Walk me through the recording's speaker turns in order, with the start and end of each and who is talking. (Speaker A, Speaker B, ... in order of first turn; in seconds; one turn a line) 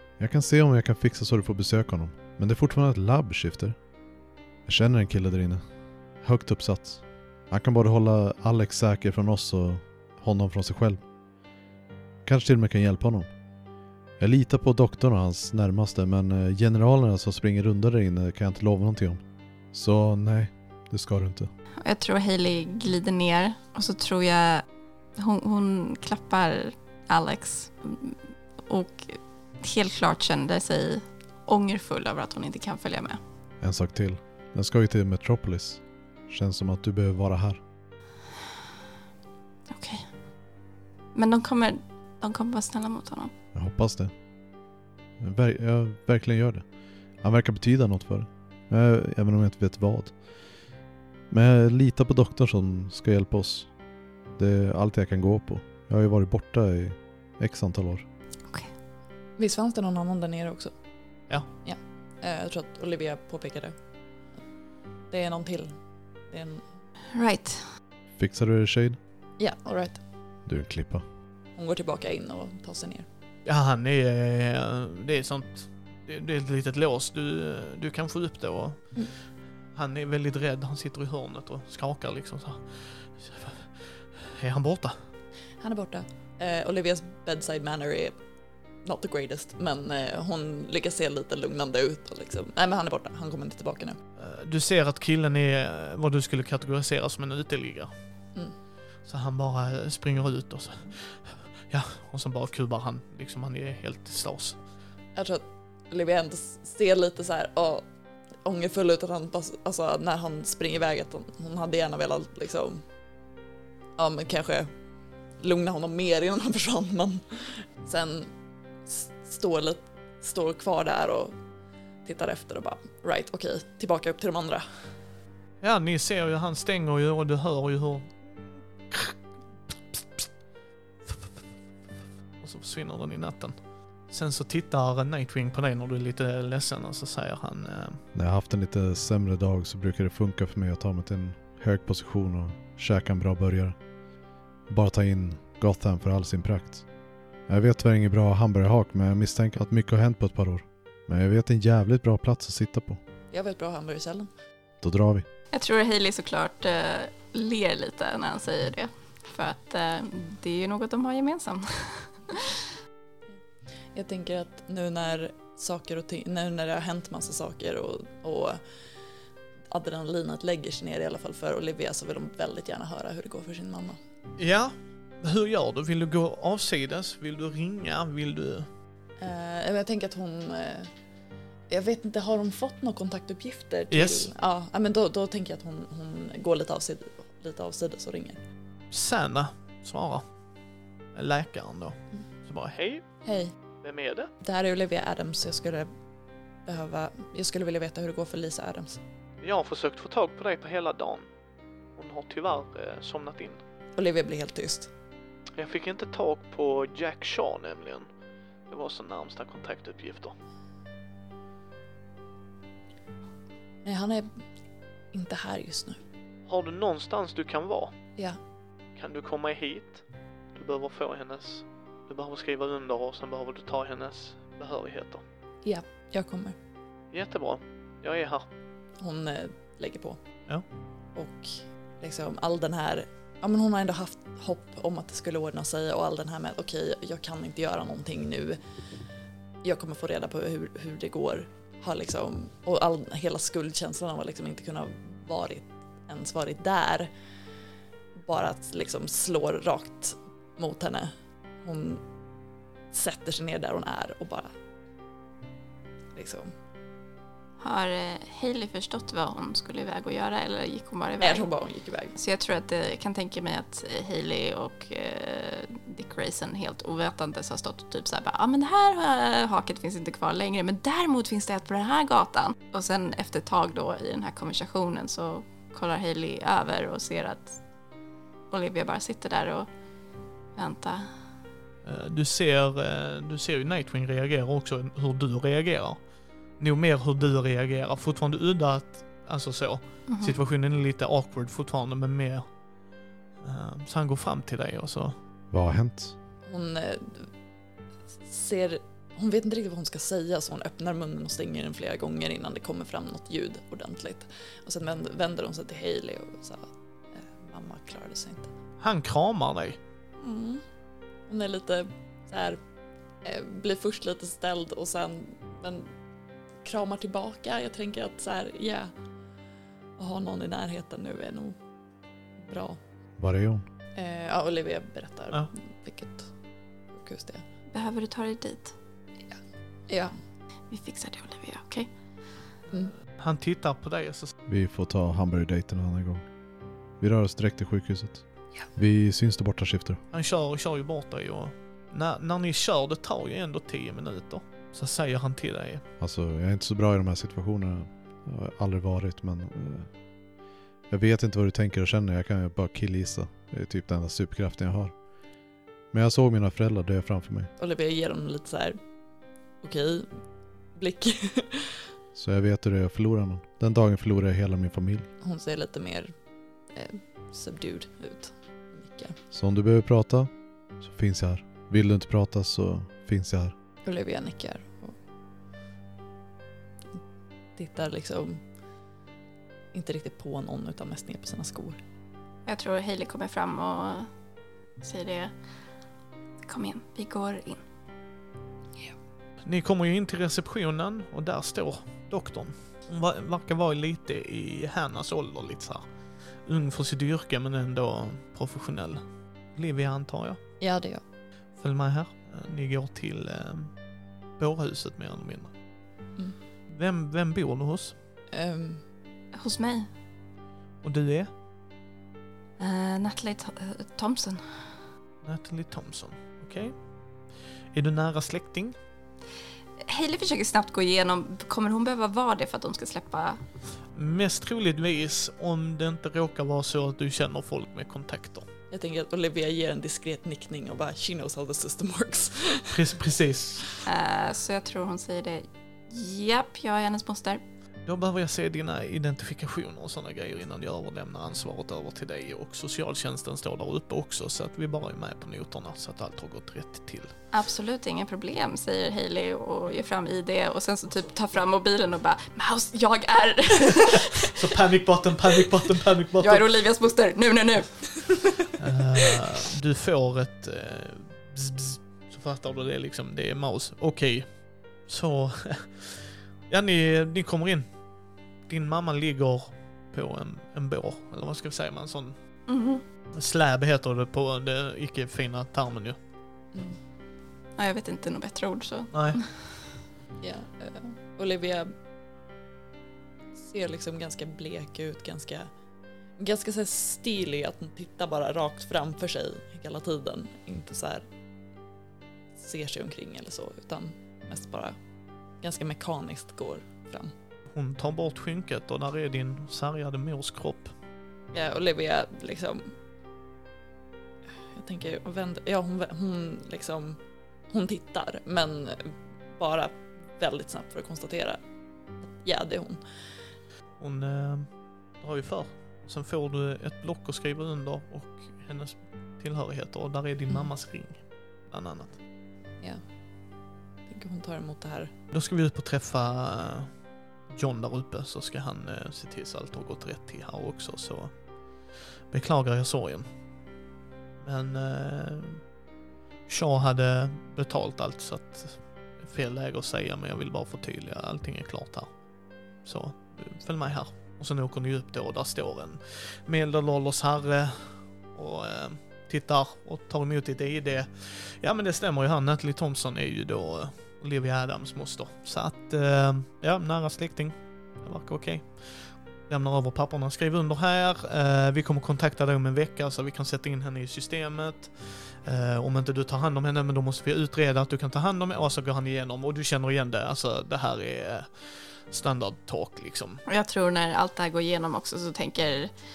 Speaker A: 0.2-3.8
Speaker A: 4.7-5.6
Speaker A: 6.2-11.0
Speaker A: 12.2-13.3
Speaker A: 14.2-19.2
Speaker A: 19.7-21.5
Speaker B: 21.8-24.6
Speaker B: 25.2-33.2
Speaker A: 33.6-37.6
Speaker B: 39.7-40.1
Speaker B: 41.1-43.3
Speaker A: 43.5-44.1
Speaker A: 45.2-46.6
Speaker A: 47.2-50.1
Speaker A: 51.3-53.7
Speaker A: 54.4-58.0
Speaker C: 59.4-60.7
Speaker C: 61.6-63.8
Speaker C: 65.1-65.7
Speaker C: 66.3-66.6
Speaker B: 67.1-67.6
Speaker A: 68.2-69.0
Speaker C: 69.4-70.0
Speaker A: 70.5-71.0
Speaker C: 71.5-73.0
Speaker D: 73.5-79.0
Speaker D: 79.7-85.0
Speaker C: 85.6-88.1
Speaker C: 88.8-94.0
Speaker D: 94.2-97.9
Speaker D: 99.1-104.6
Speaker C: 105.2-107.8
Speaker C: 108.4-112.8
Speaker C: 114.0-114.7
Speaker C: 115.4-118.3
Speaker C: 118.8-121.3
Speaker C: 122.0-124.7
Speaker D: 125.6-129.1
Speaker D: 129.9-130.3
Speaker D: 132.4-133.5
Speaker D: 134.1-138.0
Speaker A: 138.1-143.7
Speaker A: 144.7-146.8
Speaker A: 147.5-153.0
Speaker C: 153.3-154.3
Speaker A: 154.8-155.2
Speaker B: 155.5-162.5
Speaker C: 163.9-168.6
Speaker C: 169.7-174.0
Speaker D: 174.4-178.7
Speaker C: 179.2-180.9
Speaker C: 181.7-188.4
Speaker D: 183.9-184.3
Speaker D: 188.9-190.2
Speaker D: 191.1-193.0
Speaker C: 193.2-193.5
Speaker D: 193.8-194.3
Speaker C: 194.4-195.9
Speaker C: 196.7-199.0
Speaker D: 199.4-201.3
Speaker D: 201.9-203.6
Speaker C: 203.9-204.9
Speaker D: 205.6-208.1
Speaker D: 208.7-210.3
Speaker C: 213.8-214.3
Speaker C: 215.1-216.0
Speaker D: 216.5-217.9
Speaker D: 219.0-220.0
Speaker D: 220.5-225.2
Speaker C: 225.6-226.6
Speaker D: 227.1-228.4
Speaker C: 229.0-230.2
Speaker C: 231.1-238.6
Speaker C: 239.6-247.1
Speaker C: 248.2-251.1
Speaker C: 251.6-252.0
Speaker C: 252.9-254.5
Speaker C: 256.1-256.5
Speaker B: 257.6-261.5
Speaker C: 261.2-262.1
Speaker B: 262.1-277.6
Speaker B: 278.5-279.7
Speaker B: 280.6-281.1
Speaker D: 281.8-286.0
Speaker D: 286.6-292.5
Speaker B: 290.1-290.4
Speaker D: 293.4-295.1
Speaker A: 295.5-296.1
Speaker C: 296.5-297.3
Speaker C: 298.2-308.5
Speaker D: 308.8-309.8
Speaker C: 310.2-310.6
Speaker C: 311.3-312.6
Speaker C: 313.2-315.9
Speaker C: 316.6-318.9
Speaker C: 320.0-321.6
Speaker C: 322.4-322.8
Speaker A: 323.2-323.6
Speaker C: 323.9-326.3
Speaker C: 326.9-327.4
Speaker B: 327.7-328.7
Speaker B: 330.7-331.9
Speaker D: 333.2-334.3
Speaker A: 334.5-336.2
Speaker A: 337.0-338.2
Speaker A: 338.7-340.0
Speaker D: 340.1-345.8
Speaker A: 346.0-349.9
Speaker A: 350.9-354.9
Speaker A: 355.9-357.5
Speaker C: 357.6-358.8
Speaker C: 359.6-360.1
Speaker C: 360.7-361.8
Speaker A: 362.1-365.1
Speaker C: 365.2-366.1
Speaker C: 366.7-369.1
Speaker A: 369.3-373.5
Speaker C: 373.8-374.9
Speaker C: 377.6-378.4
Speaker C: 379.7-381.8
Speaker B: 382.4-384.1
Speaker B: 384.8-385.3
Speaker B: 386.4-387.6
Speaker D: 389.4-395.8
Speaker D: 396.4-399.0
Speaker D: 399.5-400.4
Speaker C: 400.6-401.0
Speaker D: 401.6-403.7
Speaker D: 404.4-405.5
Speaker D: 406.7-407.9
Speaker C: 408.3-408.8
Speaker B: 409.3-409.9
Speaker D: 410.8-411.3
Speaker B: 412.6-414.7
Speaker D: 415.2-416.8
Speaker D: 417.7-418.8
Speaker B: 419.8-423.4
Speaker D: 423.9-428.5
Speaker C: 428.7-432.8
Speaker D: 432.7-433.7
Speaker B: 433.8-437.4
Speaker D: 437.9-447.1
Speaker B: 447.3-454.3
Speaker D: 454.3-456.4
Speaker B: 456.2-458.1
Speaker D: 458.6-467.7
Speaker D: 468.5-472.1
Speaker B: 472.5-472.8
Speaker D: 473.1-476.0
Speaker B: 477.6-479.3
Speaker D: 478.9-479.2
Speaker C: 480.2-481.7
Speaker C: 483.4-485.5
Speaker C: 486.2-491.1
Speaker C: 492.4-494.8
Speaker C: 495.4-497.1
Speaker D: 497.5-500.7
Speaker C: 501.3-502.7
Speaker C: 504.5-511.4
Speaker C: 512.2-512.8
Speaker D: 513.8-522.0
Speaker C: 523.9-524.9
Speaker D: 525.1-526.7
Speaker D: 527.3-531.1
Speaker D: 531.7-533.0
Speaker D: 534.2-535.4
Speaker D: 536.3-541.9
Speaker D: 542.6-573.2
Speaker B: 573.2-575.7